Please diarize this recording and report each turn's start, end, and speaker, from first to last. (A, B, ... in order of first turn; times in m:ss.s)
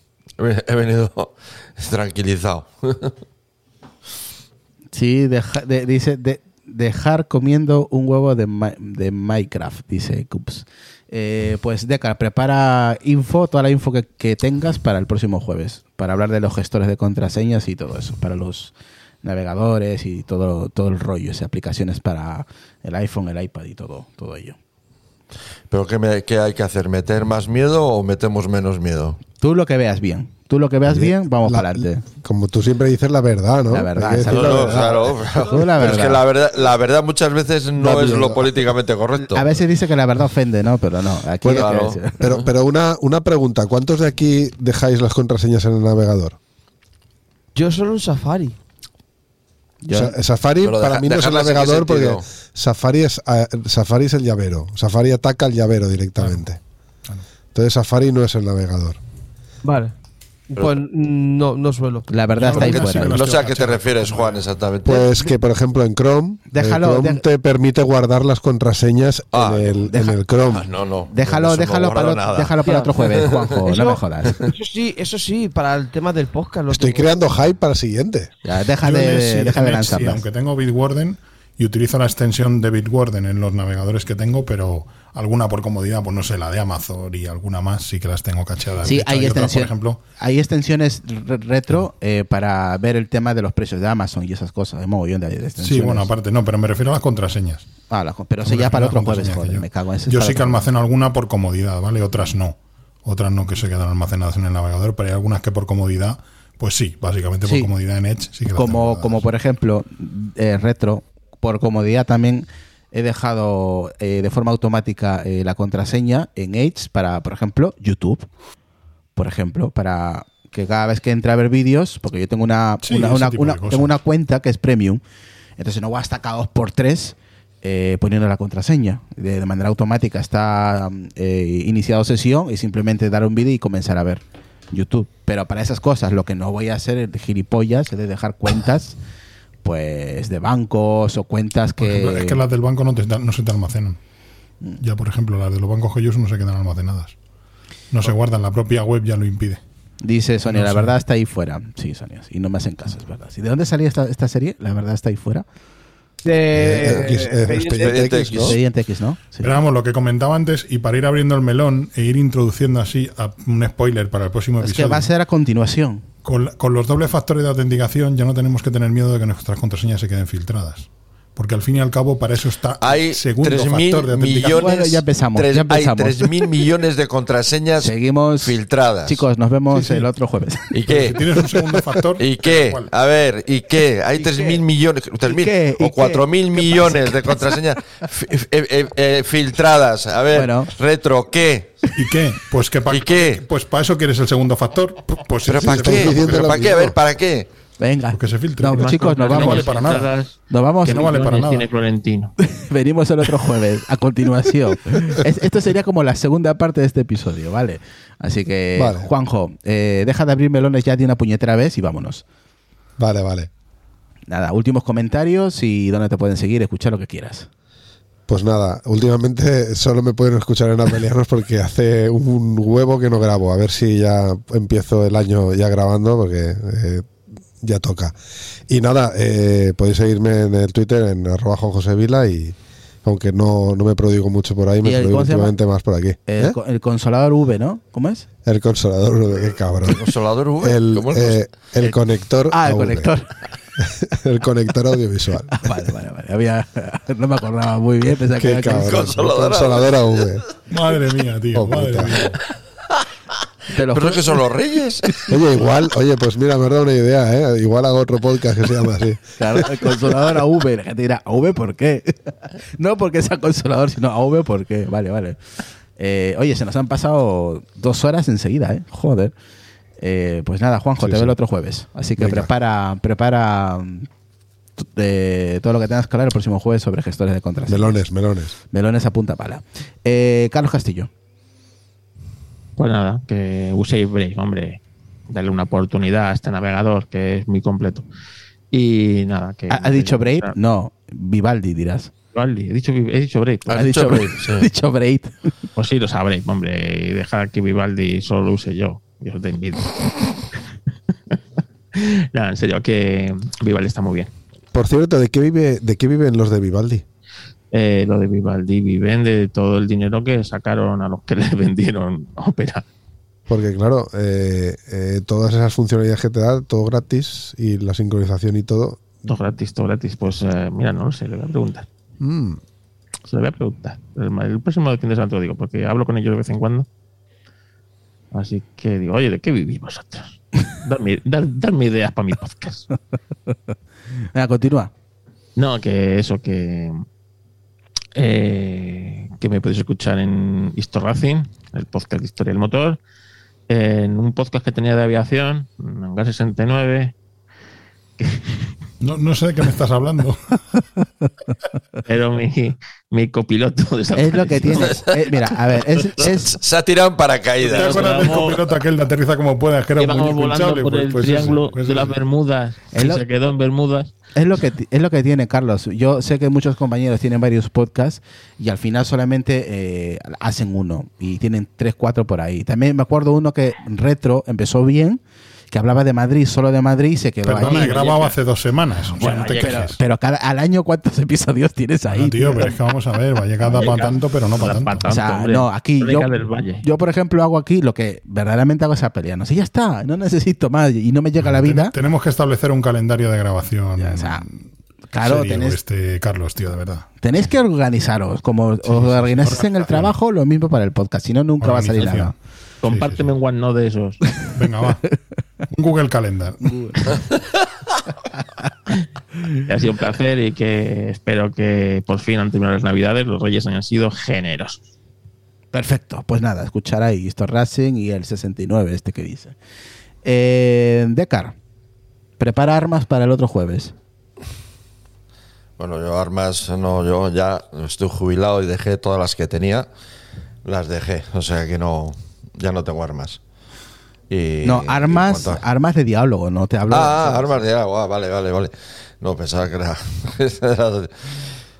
0:00.4-0:03.1 A
0:04.9-0:24.6 B
0:25.7-0:29.2 A
0:29.4-0:32.0 B
0:30.9-0:35.0 C
0:33.7-0:36.2 B
0:34.3-0:39.6 A
0:37.8-0:38.6 C
0:39.2-0:42.2 B
0:41.4-0:46.4 C
0:41.5-0:42.5 A
0:47.5-0:48.6 D
0:49.8-0:50.2 B
0:49.9-0:56.6 C
0:50.6-0:52.2 A
0:56.2-0:56.4 E
0:57.5-0:59.0 C
0:59.6-0:59.9 D
1:00.5-1:02.1 D
1:02.1-1:03.2 B
1:02.4-1:04.4 E
1:02.7-1:05.2 A
1:04.8-1:10.7 C
1:06.5-1:07.2 B
1:09.3-1:13.4 A
1:11.1-1:14.4 B
1:13.6-1:17.1 D
1:16.7-1:18.3 C
1:18.4-1:20.2 B
1:18.8-1:30.0 E
1:28.8-1:36.1 B
1:35.6-1:37.7 E
1:37.9-1:40.7 B
1:38.4-1:49.3 E
1:47.4-1:47.7 B
1:48.5-1:58.3 B
1:59.2-2:05.0 B
2:02.8-2:03.9 E
2:05.6-2:18.9 B
2:19.6-2:22.4 B
2:21.8-2:24.0 E
2:24.8-2:27.1 E
2:27.9-2:29.6 E
2:30.0-2:35.4 B
2:30.5-2:30.9 E
2:36.2-2:38.2 D
2:36.5-2:38.6 C
2:37.8-2:38.6 A
2:38.3-2:39.5 B
2:39.4-2:45.1 E
2:44.6-2:46.0 B
2:46.2-2:54.7 E
2:52.8-2:59.2 A
2:54.4-2:56.5 B
2:57.8-3:00.7 B
2:59.7-3:00.1 E
3:00.7-3:01.2 A
3:00.8-3:02.9 E
3:02.2-3:12.0 A
3:05.2-3:07.6 B
3:10.3-3:10.7 B
3:11.9-3:16.8 E
3:12.9-3:13.4 A
3:15.4-3:17.5 A
3:15.7-3:17.0 C
3:17.8-3:19.9 B
3:18.1-3:20.1 E
3:18.8-3:22.3 F
3:20.5-3:21.2 B
3:20.9-3:21.7 E
3:22.4-3:32.2 B
3:28.8-3:29.1 C
3:33.0-3:33.5 C
3:34.3-3:37.5 B
3:38.3-3:47.1 C
3:47.6-3:48.2 C
3:48.7-3:56.6 C
3:54.8-3:55.6 B
3:56.2-3:58.2 B
3:58.4-4:03.1 C
3:59.8-4:02.0 A
4:02.5-4:03.3 B
4:03.8-4:05.7 C
4:05.5-4:09.1 B
4:08.4-4:10.4 C
4:08.7-4:10.0 A
4:10.7-4:12.4 E
4:11.5-4:12.2 C
4:13.7-4:14.4 B
4:13.8-4:15.3 A
4:15.3-4:19.9 C
4:19.4-4:25.4 B
4:26.0-4:29.3 B
4:30.0-4:34.1 B
4:31.0-4:31.4 C
4:32.2-4:32.5 C
4:34.8-4:38.0 B
4:37.7-4:38.6 C
4:38.7-4:41.1 B
4:42.8-4:48.1 F
4:48.7-4:50.5 F
4:49.7-4:52.1 B
4:52.3-4:54.1 F
4:53.7-4:54.7 A
4:53.7-4:55.5 B
4:55.8-5:00.5 F
5:01.9-5:04.3 F
5:04.7-5:07.0 C
5:07.7-5:12.8 F
5:13.5-5:19.0 C
5:19.2-5:21.9 F
5:22.2-5:22.6 C
5:23.3-5:26.8 F
5:28.3-5:32.9 F
5:34.3-5:34.9 B
5:35.6-5:37.0 F
5:38.2-5:43.0 F
5:43.7-5:47.1 F
5:48.2-5:48.7 F
5:49.0-5:50.8 E
5:52.0-5:55.0 F
5:54.2-5:56.6 B
5:54.7-5:55.0 A
5:56.2-5:58.6 A
5:57.6-5:58.6 F
5:57.7-6:02.2 E
6:00.0-6:04.1 F
6:02.9-6:03.2 B
6:04.3-6:15.2 B
6:15.7-6:18.0 B
6:17.4-6:20.0 E
6:17.6-6:18.4 F
6:19.2-6:19.9 F
6:19.2-6:22.7 B
6:22.1-6:25.1 E
6:23.6-6:26.8 F
6:25.1-6:26.3 B
6:26.8-6:31.9 B
6:31.4-6:34.6 E
6:34.0-6:34.4 B
6:35.1-6:35.8 B
6:35.2-6:37.1 E
6:37.2-6:42.3 B
6:38.8-6:40.1 E
6:41.6-6:42.3 E
6:42.8-6:44.4 F
6:42.8-6:43.3 E
6:44.5-6:45.1 E
6:45.6-6:47.2 E
6:49.6-6:54.9 F
6:55.7-6:59.5 B
7:00.2-7:01.5 B
7:02.4-7:03.9 B
7:05.8-7:09.9 A
7:10.6-7:13.4 A
7:14.3-7:15.6 A
7:14.6-7:17.6 B
7:16.9-7:21.3 A